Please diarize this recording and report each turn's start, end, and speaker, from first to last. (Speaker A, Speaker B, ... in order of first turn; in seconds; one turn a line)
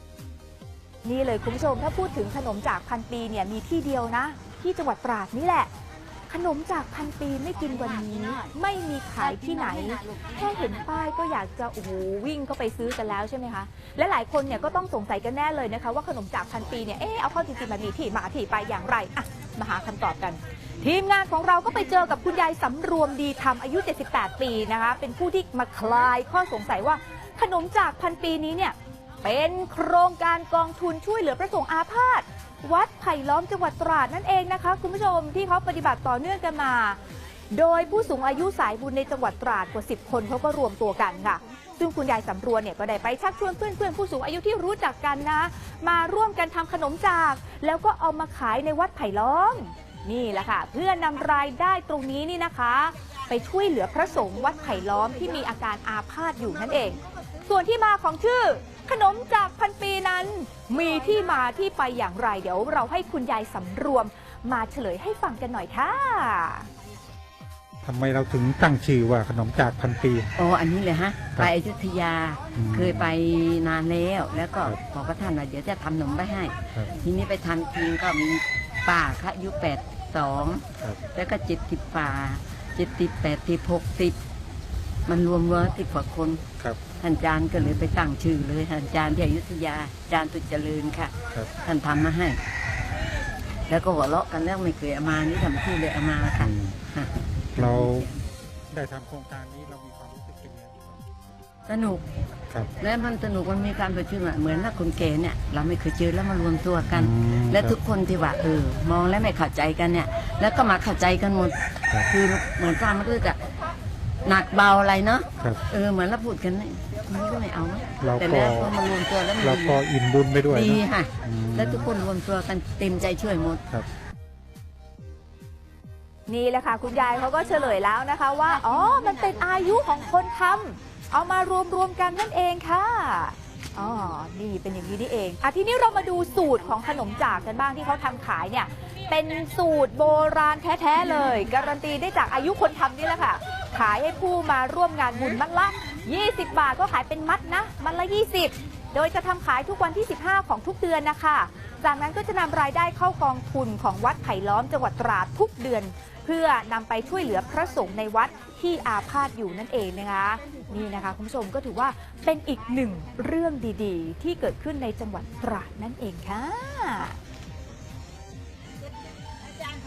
Speaker A: 1.0-5.7
Speaker A: 6.3-37.0
Speaker A: 37.5-66.7
Speaker B: 67.8-70.3
Speaker C: 70.3-84.2
Speaker B: 72.5-73.1
Speaker C: 85.0-86.4
Speaker C: 87.0-92.4
Speaker C: 93.7-98.1
Speaker B: 96.4-96.8
Speaker B: 97.6-98.1
Speaker B: 98.7-101.0
Speaker C: 101.7-102.1
Speaker C: 102.8-113.4
Speaker B: 106.9-107.8
Speaker C: 114.2-119.8
Speaker B: 118.0-118.7
Speaker B: 119.4-121.9
Speaker C: 120.4-123.6
Speaker A: 126.3-167.2